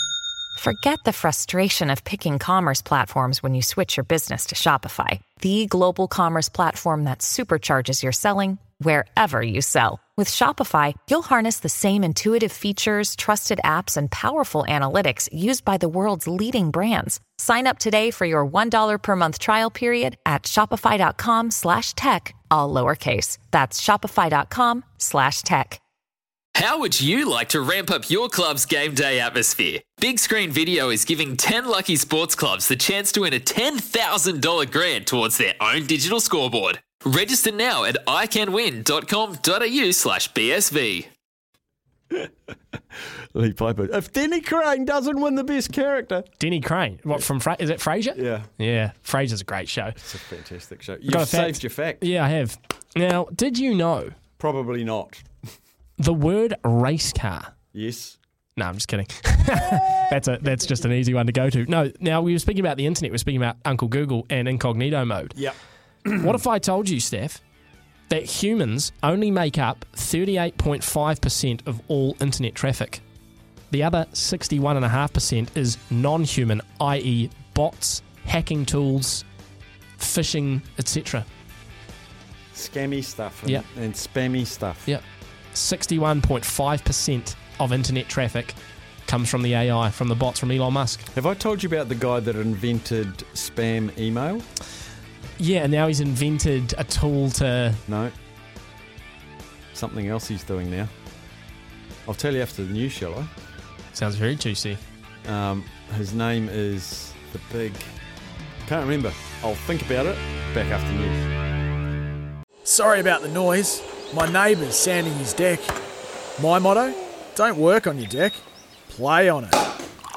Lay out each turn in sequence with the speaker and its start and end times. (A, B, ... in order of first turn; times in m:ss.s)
0:00.6-0:25.8 A
0:26.7-0:41.1 B
0:43.3-0:46.3 C
0:46.4-0:50.0 D
0:48.1-0:48.5 C
0:50.0-0:52.0 C
0:51.1-0:54.2 D
0:54.4-0:55.3 C
0:56.0-0:57.5 D
0:57.7-0:58.2 C
0:58.6-1:05.4 D
1:06.1-1:07.4 D
1:08.1-1:13.0 D
1:13.7-1:19.2 D
1:20.0-1:21.3 D
1:22.5-1:24.9 C
1:25.5-1:31.1 D
1:31.1-1:34.5 C
1:35.4-1:37.8 D
1:37.9-1:38.1 C
1:39.7-1:40.9 C
1:42.1-1:43.3 C
1:43.9-1:44.8 D
1:45.2-1:47.9 C
1:48.6-1:51.3 C
1:52.6-1:55.7 E
1:56.4-1:59.6 E